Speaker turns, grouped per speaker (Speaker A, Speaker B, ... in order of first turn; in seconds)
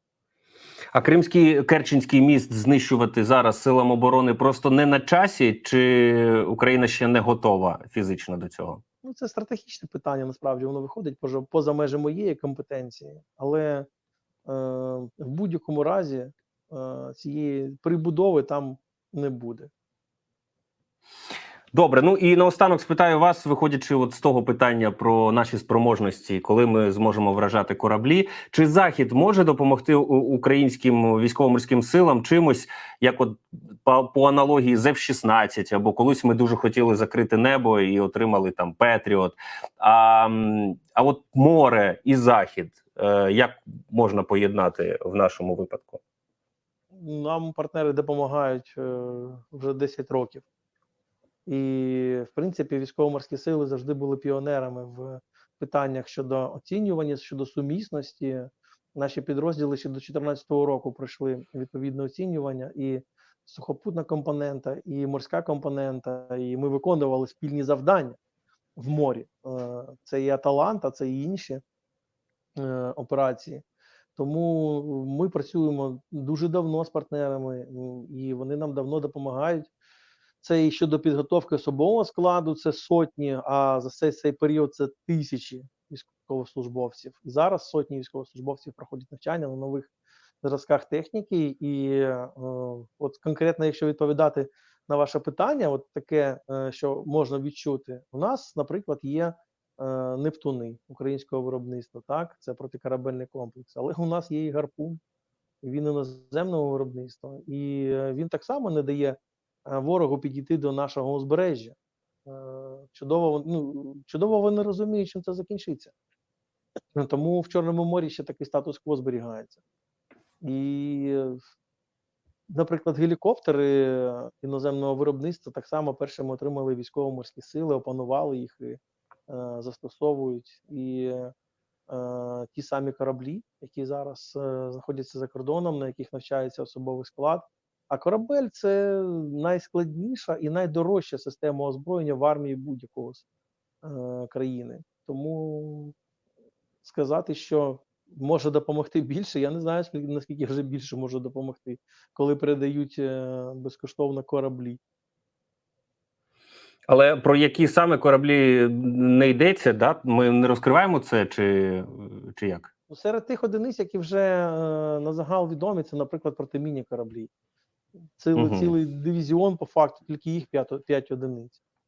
Speaker A: 0.9-8.8, 21.7-46.0, 156.9-162.7, 168.4-168.7
Speaker B: 9.0-13.9, 14.5-19.7, 46.9-50.5, 51.5-68.2, 68.8-71.6, 72.6-73.6, 74.2-79.7, 80.4-89.9, 90.4-105.0, 105.6-115.9, 117.0-119.6, 120.4-121.4, 122.5-131.3, 131.9-143.2, 143.8-145.9, 146.8-154.8, 162.9-167.3, 168.2-171.6